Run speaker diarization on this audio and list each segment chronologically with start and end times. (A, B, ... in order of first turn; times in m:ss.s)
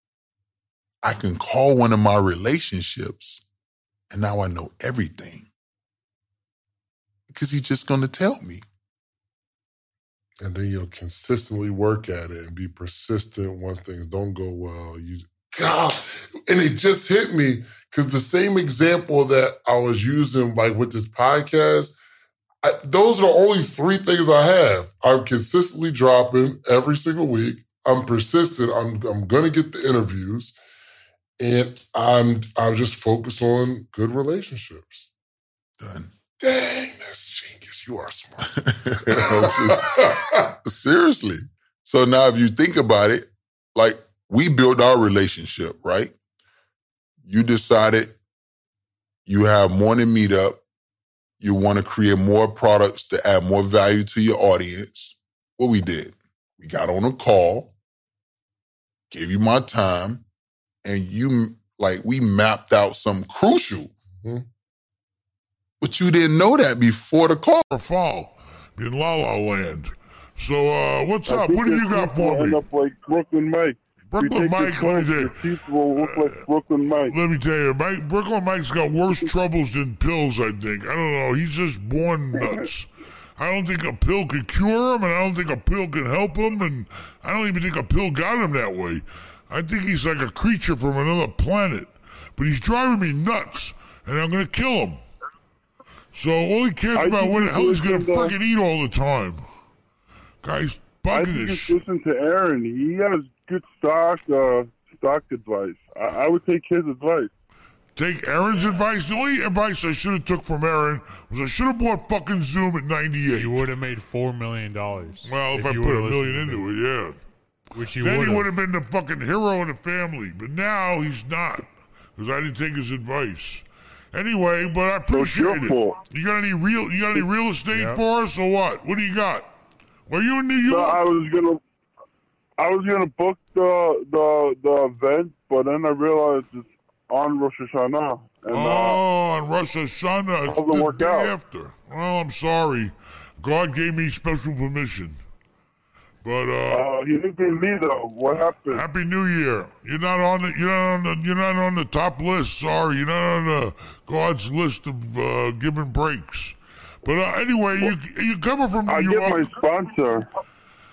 0:01.0-0:03.4 A
0:04.1-0:05.4 A
0:07.3-0:08.6 A
0:10.4-0:22.0 B
0:22.6-0:30.5 B
0:31.4-0:35.1 B
0:35.8-0:36.1 A
0:36.4-0:40.4 B
0:38.6-0:46.1 A
0:47.2-0:48.2 A
0:49.2-0:50.6 A
0:51.4-0:57.7 A
0:59.1-1:00.2 A
1:00.8-1:03.9 A
1:05.8-1:07.6 A
1:07.7-1:12.6 C
1:11.3-1:17.1 D
1:14.1-1:15.4 C
1:16.0-1:16.3 C
1:17.1-1:35.0 C
1:36.1-1:39.4 C
1:36.9-1:38.3 D
1:40.4-1:41.8 C
1:41.1-1:47.3 D
1:48.0-1:53.6 C
1:53.3-1:56.6 E
1:55.2-1:57.2 C
1:57.7-1:58.5 E
1:58.0-2:09.5 C
2:05.1-2:06.0 D
2:07.7-2:08.0 E
2:10.1-2:11.1 C
2:10.6-2:11.6 D
2:12.6-2:19.0 D
2:18.5-2:25.2 C
2:20.5-2:21.3 D
2:26.2-2:26.9 C
2:26.7-2:28.8 D
2:28.3-2:39.6 C
2:38.9-2:40.3 D